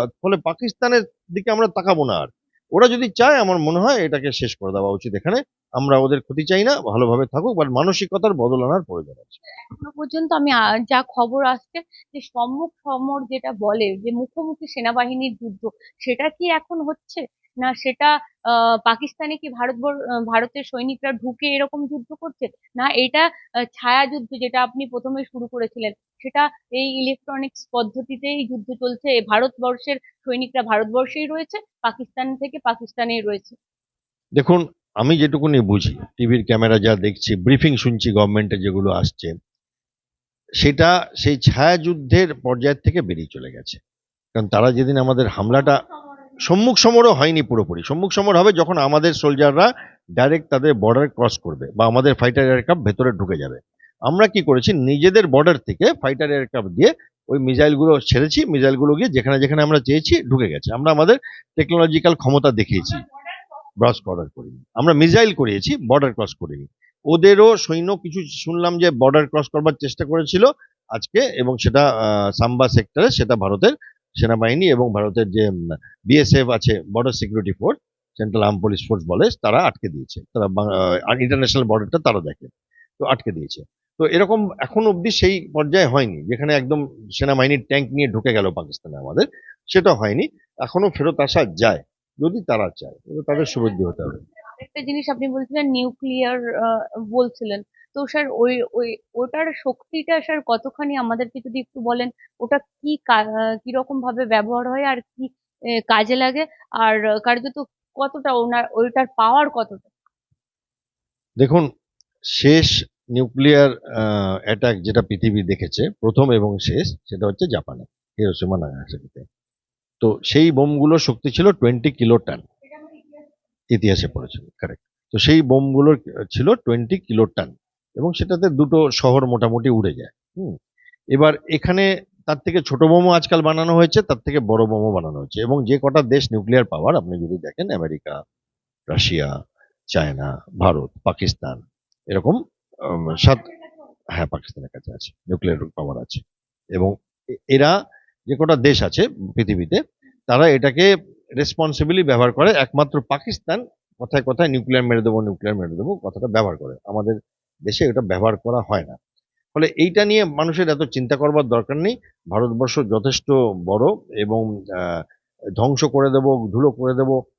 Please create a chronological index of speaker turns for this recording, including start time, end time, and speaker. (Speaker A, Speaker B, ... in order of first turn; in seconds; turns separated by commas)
Speaker A: 0.2-9.4, Speaker B: 9.7-33.6, Speaker A: 34.4-39.3, Speaker A: 40.6-43.8, Speaker A: 44.3-45.8, Speaker A: 46.5-63.0, Speaker A: 63.8-75.5, Speaker A: 76.1-94.2, Speaker B: 94.6-105.3, Speaker B: 105.9-109.9, Speaker A: 111.4-111.7, Speaker A: 112.3-119.2, Speaker A: 120.0-122.5, Speaker B: 122.8-123.1, Speaker A: 123.7-130.6, Speaker A: 131.1-138.1, Speaker A: 138.9-139.3, Speaker A: 139.9-143.5, Speaker A: 144.2-146.2, Speaker A: 148.3-157.2, Speaker A: 157.7-159.0, Speaker A: 159.5-165.0, Speaker A: 165.6-167.2